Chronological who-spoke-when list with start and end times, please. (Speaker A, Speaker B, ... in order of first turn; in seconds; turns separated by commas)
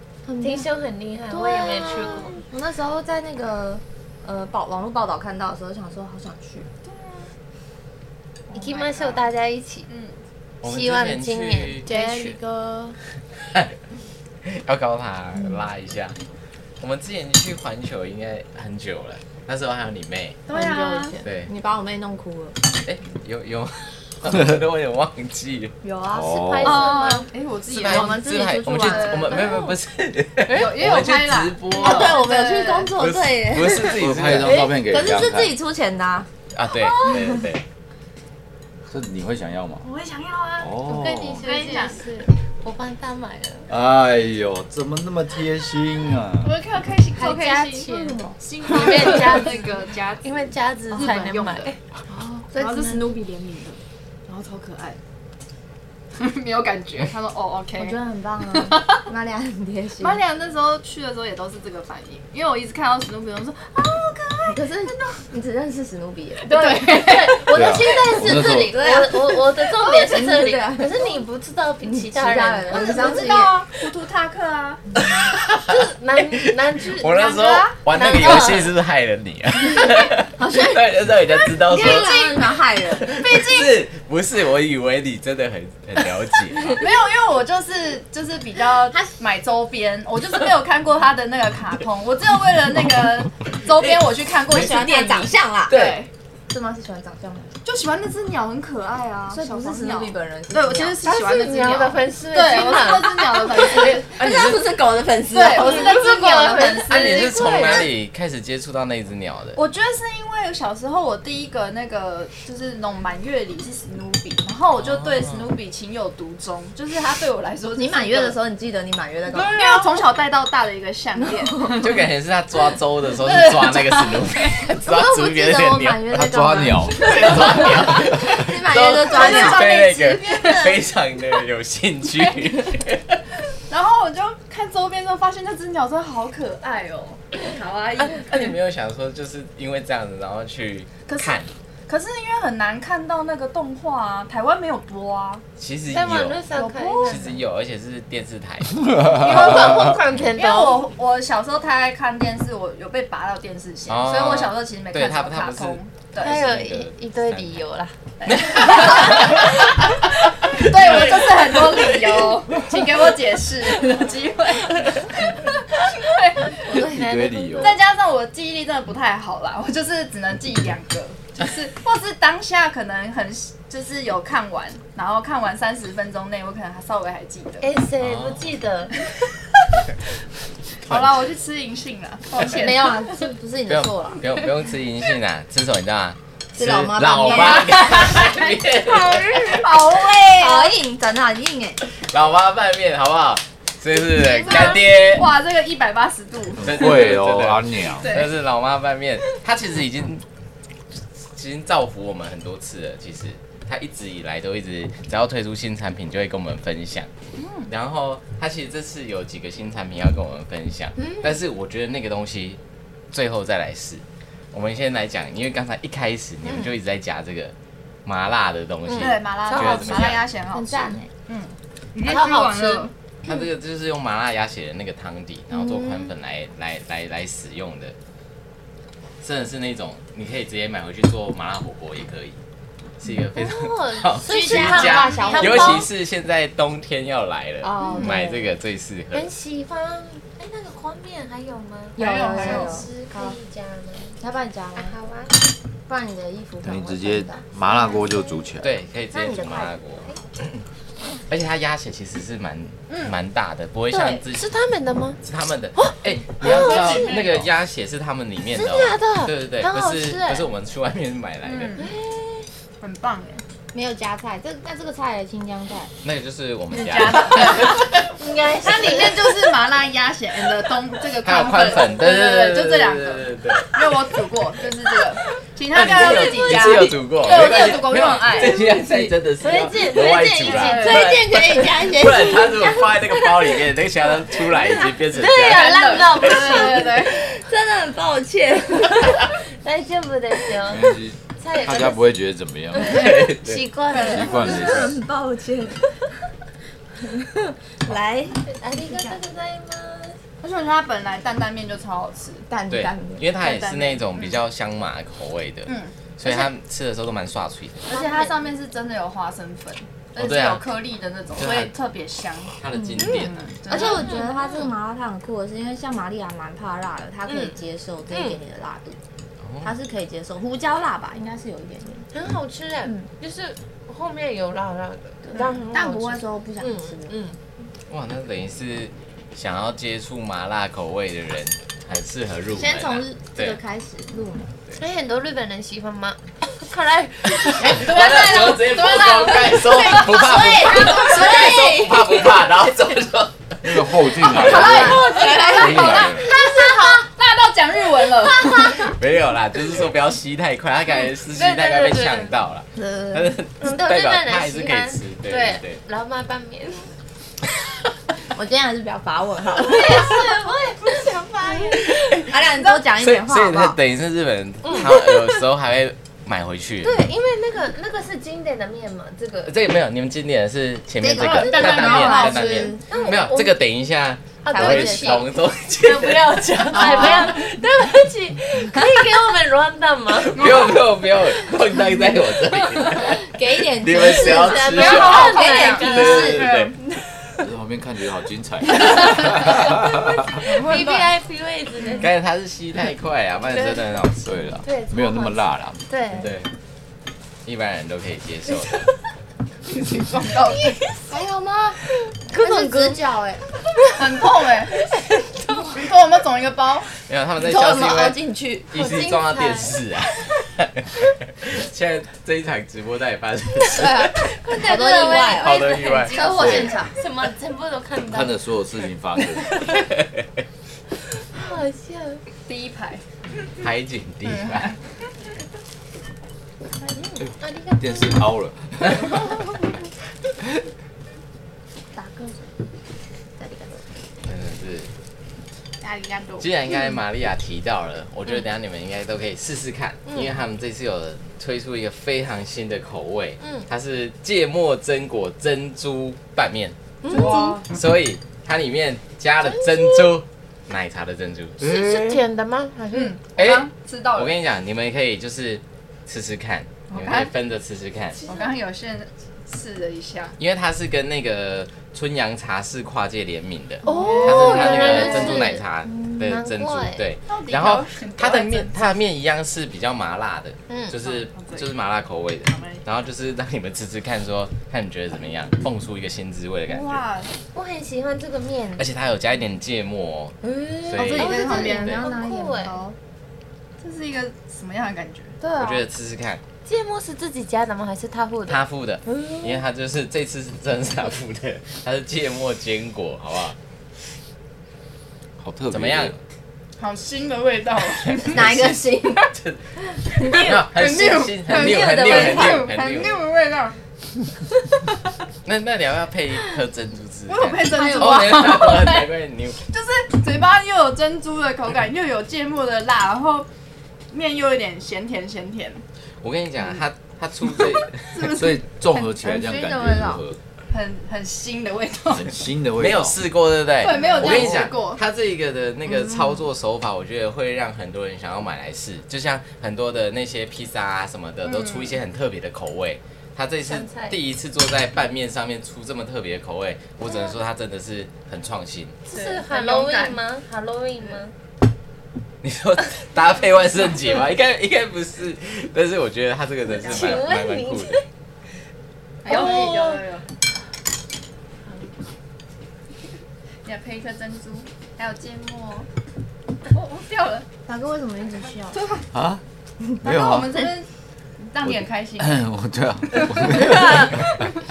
Speaker A: 0.2-0.7, Speaker B: 0.4-2.4, Speaker A: 1.3-6.7, Speaker C: 6.8-7.3, Speaker C: 8.5-9.3, Speaker B: 8.5-9.9, Speaker C: 9.9-10.2, Speaker D: 10.6-11.9, Speaker B: 10.6-12.4, Speaker A: 11.8-13.0, Speaker D: 14.4-16.2, Speaker D: 16.8-20.4, Speaker C: 20.5-21.2, Speaker A: 20.5-22.6, Speaker D: 21.2-21.5, Speaker D: 22.7-25.8, Speaker A: 25.8-27.1, Speaker E: 26.1-26.8, Speaker B: 26.4-27.3, Speaker C: 26.6-28.2, Speaker A: 27.7-29.6, Speaker D: 27.7-32.2, Speaker C: 28.8-29.6, Speaker C: 30.5-32.9, Speaker A: 31.7-36.3, Speaker D: 33.0-34.6, Speaker E: 33.8-35.5, Speaker D: 36.5-37.6, Speaker A: 37.0-37.4, Speaker E: 38.9-39.8, Speaker C: 39.8-42.1, Speaker E: 40.6-41.4, Speaker B: 40.8-43.7, Speaker E: 43.7-46.5, Speaker C: 46.4-51.7, Speaker B: 47.1-49.7, Speaker A: 47.9-49.3, Speaker B: 50.2-51.8, Speaker A: 51.0-51.2, Speaker A: 52.1-53.2, Speaker C: 52.5-55.0, Speaker C: 56.1-58.0, Speaker A: 57.8-60.2, Speaker C: 58.6-59.1, Speaker C: 60.0-65.2, Speaker A: 64.5-66.9, Speaker C: 66.4-67.6, Speaker B: 66.5-73.4, Speaker E: 67.5-68.8, Speaker A: 68.1-71.2, Speaker A: 71.8-73.5, Speaker C: 72.7-74.9, Speaker D: 75.0-86.8, Speaker B: 75.6-78.7, Speaker C: 77.2-77.7, Speaker A: 80.4-81.0, Speaker A: 81.6-83.2, Speaker C: 81.7-82.3, Speaker C: 83.1-83.8, Speaker C: 86.7-96.1, Speaker A: 94.5-95.9, Speaker D: 95.7-96.0, Speaker A: 96.5-97.5, Speaker C: 97.6-104.1, Speaker A: 99.3-101.0, Speaker B: 101.0-103.6, Speaker A: 103.5-106.8, Speaker D: 103.8-104.8, Speaker C: 105.3-107.8, Speaker B: 105.5-107.9, Speaker D: 106.9-109.6, Speaker C: 109.5-118.4, Speaker D: 114.8-115.5, Speaker A: 117.8-119.9, Speaker C: 119.3-122.0, Speaker D: 121.8-126.1, Speaker C: 123.2-124.6, Speaker A: 124.8-130.8, Speaker E: 126.1-127.2, Speaker D: 126.9-133.2, Speaker C: 127.2-127.6, Speaker C: 129.0-130.8, Speaker C: 133.7-138.5, Speaker D: 138.0-141.5, Speaker C: 141.1-145.4, Speaker D: 145.6-146.4, Speaker B: 145.9-147.4, Speaker C: 146.5-147.4, Speaker D: 147.0-149.5, Speaker B: 149.1-150.8, Speaker C: 149.2-156.4, Speaker D: 153.9-157.6, Speaker B: 156.2-157.9, Speaker C: 158.2-159.9, Speaker D: 158.2-159.9, Speaker B: 158.5-159.4, Speaker C: 160.4-166.8, Speaker D: 160.4-161.2, Speaker D: 161.7-162.1, Speaker A: 166.7-167.0, Speaker B: 166.7-167.8, Speaker E: 166.9-167.8, Speaker C: 167.6-177.7, Speaker B: 177.6-179.1, Speaker D: 178.0-178.5, Speaker C: 180.8-183.3, Speaker A: 182.4-184.2, Speaker D: 183.7-189.6, Speaker A: 186.6-188.1, Speaker C: 187.3-190.7, Speaker A: 190.3-191.8, Speaker D: 192.0-195.3, Speaker C: 194.3-197.0, Speaker E: 196.6-198.1, Speaker D: 196.6-200.2, Speaker C: 198.0-198.3, Speaker D: 201.2-207.1, Speaker C: 207.3-207.7, Speaker D: 207.7-212.6, Speaker D: 213.1-217.5, Speaker D: 218.0-220.2, Speaker B: 218.9-220.1, Speaker C: 219.0-222.9, Speaker A: 220.5-221.1, Speaker B: 222.0-222.9, Speaker D: 223.2-227.9, Speaker A: 225.5-226.1, Speaker D: 229.2-232.4, Speaker D: 233.0-239.3, Speaker B: 233.3-235.9, Speaker A: 234.2-235.9, Speaker C: 234.5-235.4, Speaker A: 237.6-238.3, Speaker B: 237.8-238.4, Speaker B: 239.1-244.2, Speaker A: 241.9-243.4, Speaker C: 242.0-242.9, Speaker A: 244.2-244.9, Speaker B: 244.8-245.4, Speaker A: 245.9-247.4, Speaker E: 246.6-248.7, Speaker B: 247.7-248.5, Speaker D: 248.6-250.6, Speaker A: 249.1-250.1, Speaker D: 251.3-254.5, Speaker C: 252.9-253.1, Speaker B: 253.9-255.2, Speaker D: 255.2-261.7, Speaker B: 255.7-257.3, Speaker C: 256.4-257.3, Speaker B: 258.5-260.5, Speaker C: 261.4-261.9, Speaker B: 261.8-262.5, Speaker C: 262.8-263.4, Speaker A: 263.7-265.9, Speaker D: 266.0-267.8, Speaker C: 266.7-267.9, Speaker B: 267.6-269.3, Speaker C: 268.6-278.8, Speaker D: 271.2-273.7, Speaker D: 275.7-286.4, Speaker B: 276.0-276.9, Speaker B: 279.4-281.3, Speaker C: 280.4-281.1, Speaker A: 280.7-282.8, Speaker B: 285.1-287.4, Speaker C: 285.4-287.2, Speaker A: 286.5-289.3, Speaker B: 289.1-292.0, Speaker E: 290.7-293.2, Speaker B: 292.7-294.8, Speaker D: 292.8-293.6, Speaker A: 293.9-295.9, Speaker E: 294.0-295.0, Speaker A: 297.0-298.4, Speaker B: 298.4-300.2, Speaker C: 300.4-302.5, Speaker A: 302.5-303.2, Speaker D: 302.7-307.9, Speaker C: 303.4-304.4, Speaker C: 305.6-305.9, Speaker C: 307.9-312.6, Speaker B: 307.9-308.3, Speaker D: 310.2-310.6, Speaker D: 311.4-311.7, Speaker D: 312.6-313.4, Speaker A: 312.7-313.2, Speaker B: 313.0-314.7, Speaker C: 313.1-314.2, Speaker A: 313.7-319.0, Speaker B: 317.2-317.6, Speaker B: 318.1-318.4, Speaker D: 319.4-319.7, Speaker A: 319.6-322.1, Speaker B: 322.1-327.4, Speaker A: 325.3-327.1, Speaker D: 327.9-333.6, Speaker A: 332.5-334.5, Speaker B: 334.8-338.4, Speaker D: 337.4-344.8, Speaker C: 337.8-341.4, Speaker A: 338.0-342.3, Speaker E: 343.6-346.2, Speaker A: 344.2-346.2, Speaker B: 344.4-347.0, Speaker C: 344.9-348.9, Speaker B: 348.4-348.9, Speaker D: 348.9-355.8, Speaker B: 351.3-352.3, Speaker A: 352.8-353.4, Speaker B: 353.6-356.9, Speaker A: 358.3-360.2, Speaker B: 359.5-362.2, Speaker D: 361.9-362.3, Speaker A: 362.3-363.8, Speaker D: 362.9-367.1, Speaker B: 364.6-365.4, Speaker B: 366.8-369.6, Speaker D: 369.4-377.3, Speaker A: 371.0-372.8, Speaker C: 371.1-372.8, Speaker B: 371.4-372.3, Speaker B: 372.9-373.6, Speaker B: 374.4-380.8, Speaker A: 374.5-375.2, Speaker A: 376.7-377.4, Speaker D: 380.2-383.2, Speaker A: 382.9-386.6, Speaker D: 383.8-386.7, Speaker B: 384.0-386.5, Speaker C: 384.7-386.7, Speaker E: 387.4-390.3, Speaker B: 389.3-392.1, Speaker C: 390.4-391.1, Speaker D: 392.0-394.4, Speaker E: 394.2-395.8, Speaker B: 394.6-396.3, Speaker D: 396.1-396.5, Speaker D: 397.4-398.9, Speaker C: 399.7-400.8, Speaker B: 400.7-401.0, Speaker A: 401.1-403.4, Speaker B: 401.9-403.0, Speaker C: 403.9-404.8, Speaker B: 404.8-405.8, Speaker C: 405.7-406.9, Speaker D: 407.1-414.4, Speaker A: 407.4-408.7, Speaker B: 408.7-409.8, Speaker A: 413.8-416.9, Speaker B: 414.4-418.4, Speaker D: 415.4-416.6, Speaker C: 416.1-416.8, Speaker E: 416.4-416.7, Speaker E: 418.1-419.5, Speaker D: 419.7-420.2, Speaker B: 421.1-422.2, Speaker C: 422.4-423.0, Speaker D: 423.6-424.7, Speaker C: 424.2-424.8, Speaker B: 426.9-428.2, Speaker E: 427.2-429.2, Speaker A: 431.9-432.5, Speaker A: 433.4-433.8, Speaker D: 434.2-434.9, Speaker C: 435.8-436.4, Speaker D: 436.4-446.8, Speaker B: 440.1-440.4, Speaker B: 443.4-443.7, Speaker A: 447.0-447.6, Speaker B: 447.1-447.6, Speaker C: 447.1-447.7, Speaker D: 447.6-452.2, Speaker B: 449.5-450.1, Speaker B: 451.6-453.2, Speaker C: 452.9-454.4, Speaker D: 453.4-458.2, Speaker C: 456.9-457.3, Speaker C: 458.2-460.4, Speaker D: 460.4-477.0, Speaker C: 463.8-465.1, Speaker B: 463.8-467.1, Speaker A: 463.9-466.1, Speaker C: 467.3-468.9, Speaker C: 471.0-471.7, Speaker C: 472.4-472.8, Speaker C: 476.7-477.3, Speaker B: 477.5-478.9, Speaker D: 478.8-481.9, Speaker B: 480.4-482.8, Speaker C: 480.9-482.2, Speaker A: 481.2-482.9, Speaker C: 483.8-485.4, Speaker B: 485.4-485.8, Speaker D: 485.6-486.4, Speaker B: 486.6-489.6, Speaker D: 488.5-493.6, Speaker E: 495.4-496.2, Speaker D: 495.7-496.1, Speaker C: 496.8-498.6, Speaker D: 498.1-499.6, Speaker A: 498.2-499.3, Speaker C: 500.1-503.8, Speaker D: 500.2-503.1, Speaker A: 501.5-503.0, Speaker D: 505.4-509.6, Speaker C: 507.3-509.1, Speaker A: 507.6-508.6, Speaker C: 509.7-513.5, Speaker C: 514.1-515.8, Speaker D: 516.2-518.4, Speaker C: 517.6-518.6, Speaker E: 518.2-520.4, Speaker A: 519.2-520.2, Speaker C: 520.7-522.4, Speaker E: 522.1-523.2, Speaker D: 522.8-539.0, Speaker C: 523.8-525.0, Speaker C: 531.4-532.0, Speaker B: 533.6-534.2, Speaker B: 539.0-541.3, Speaker C: 539.1-540.2, Speaker D: 542.4-548.0, Speaker C: 546.8-547.2, Speaker B: 546.8-548.0, Speaker C: 549.2-550.3, Speaker B: 549.2-550.0, Speaker C: 553.6-555.9, Speaker C: 556.7-557.5, Speaker A: 557.6-558.8, Speaker C: 558.7-559.1, Speaker E: 559.1-559.4, Speaker E: 560.0-560.6, Speaker C: 560.0-560.9, Speaker C: 561.4-562.4, Speaker E: 561.7-564.3, Speaker C: 563.1-564.0